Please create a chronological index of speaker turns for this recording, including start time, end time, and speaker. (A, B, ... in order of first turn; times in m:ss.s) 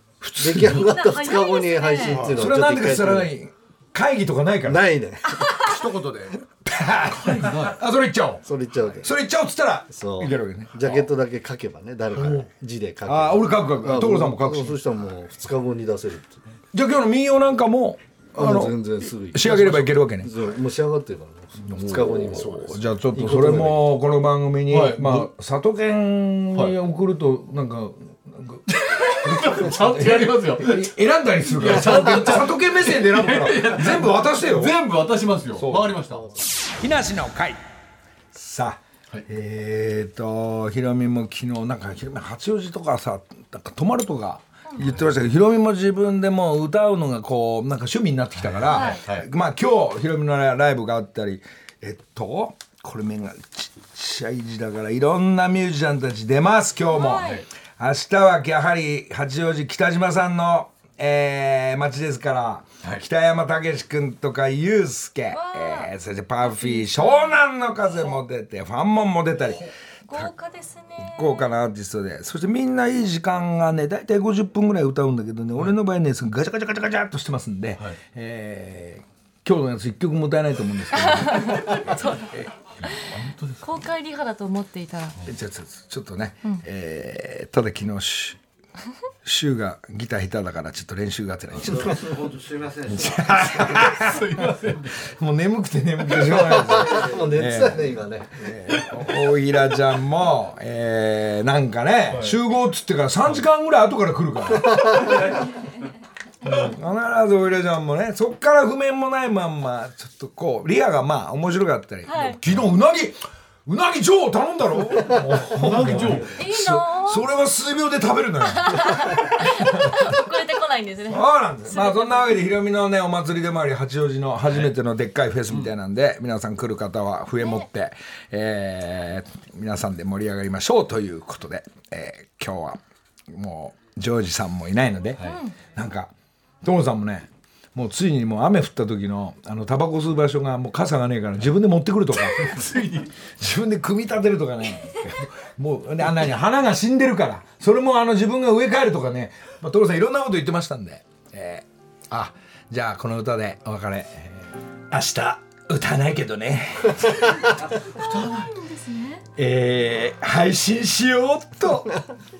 0:00.2-0:00.9 A
0:00.4-0:03.3 B
0:00.8-0:02.2 C
0:02.0-0:02.4 D
0:02.3-0:04.9 A
0:04.6-0:05.6 B
0:05.5-0:06.4 D
0:06.6-0:08.4 A
0:07.3-0:07.8 E
0:08.4-0:09.1 B
0:09.0-0:11.1 A
0:09.9-0:16.4 B
0:12.2-0:12.5 D
0:13.0-0:14.8 A
0:16.7-0:20.3 A
0:18.4-0:23.8 B
0:21.7-0:34.8 A
0:22.0-0:22.8 D
0:24.7-0:25.3 E
0:28.7-0:30.9 E
0:31.6-0:36.3 E
0:35.5-0:36.0 A
0:36.8-0:37.6 A
0:38.3-1:10.3 A
0:48.4-0:49.2 E
0:48.7-0:49.0 C
0:56.9-0:57.4 C
1:05.3-1:05.9 C
1:06.4-1:07.4 C
1:10.1-1:11.4 C
1:11.0-1:22.5 A
1:21.0-1:22.3 C
1:23.1-1:23.6 E
1:23.6-1:25.2 C
1:25.2-1:28.4 A
1:29.2-1:32.2 A
1:32.8-1:45.3 A
1:34.0-1:35.0 E
1:36.4-1:38.4 B
1:42.1-1:42.4 E
1:46.4-2:00.1 A
1:52.1-1:52.4 C
1:55.5-1:56.4 E
1:56.4-1:57.3 C
1:58.4-2:02.4 C
2:01.1-2:16.1 A
2:15.2-2:15.5 C
2:16.6-2:37.7 A
2:22.4-2:23.1 E
2:38.0-2:39.2 C
2:39.4-2:42.0 A